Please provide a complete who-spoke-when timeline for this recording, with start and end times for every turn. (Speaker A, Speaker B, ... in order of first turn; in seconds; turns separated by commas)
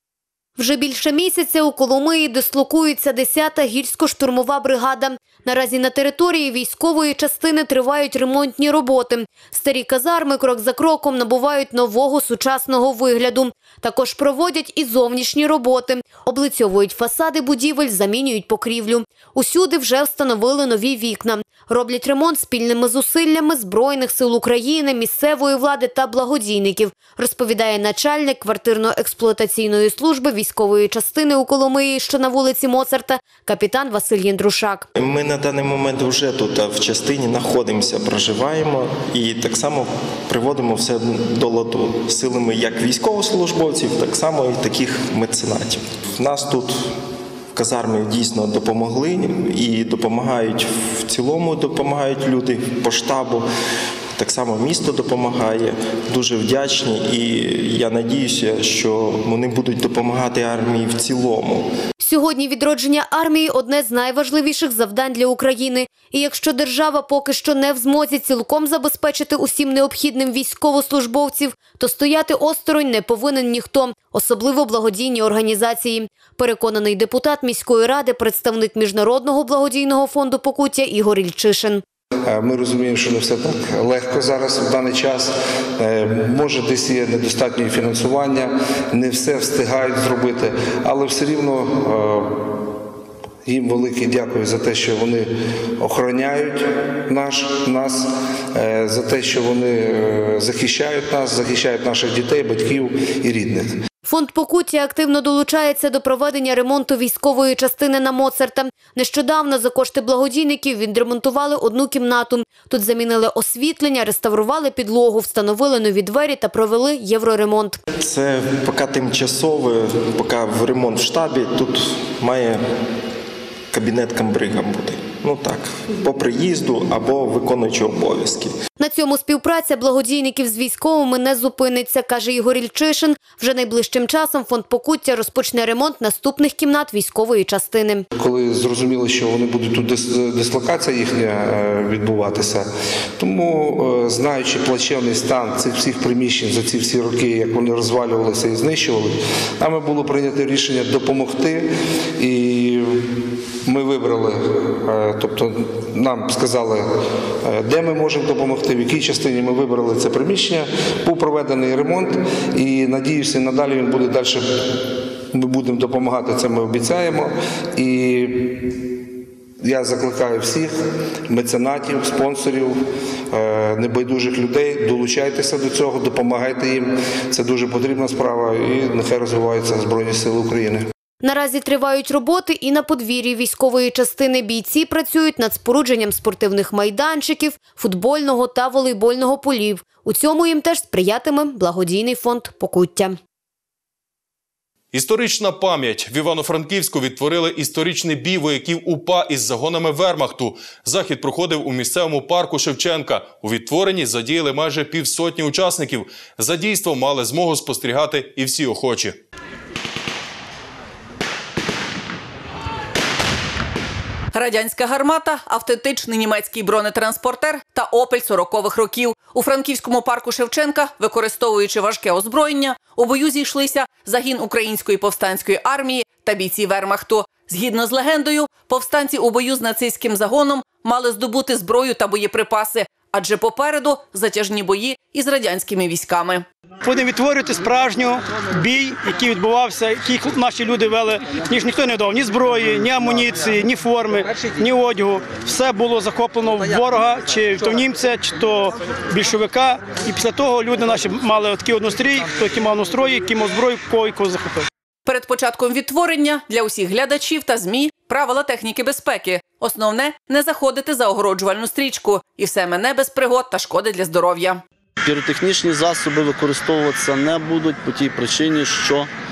Speaker A: 0.6-34.9, Speaker B: 35.0-46.9, Speaker B: 47.5-53.5, Speaker B: 54.2-61.7, Speaker A: 62.0-81.8, Speaker C: 82.2-92.5, Speaker C: 93.4-103.8, Speaker A: 104.0-117.8, Speaker B: 118.0-122.6, Speaker B: 123.7-128.5, Speaker A: 128.8-138.0, Speaker C: 138.2-153.1, Speaker C: 153.6-156.9, Speaker C: 157.4-164.5, Speaker C: 165.3-168.7, Speaker C: 169.6-180.9, Speaker A: 181.2-193.2, Speaker D: 194.9-209.2, Speaker E: 214.3-236.4, Speaker F: 236.8-254.7, Speaker E: 255.1-264.6, Speaker G: 265.0-269.1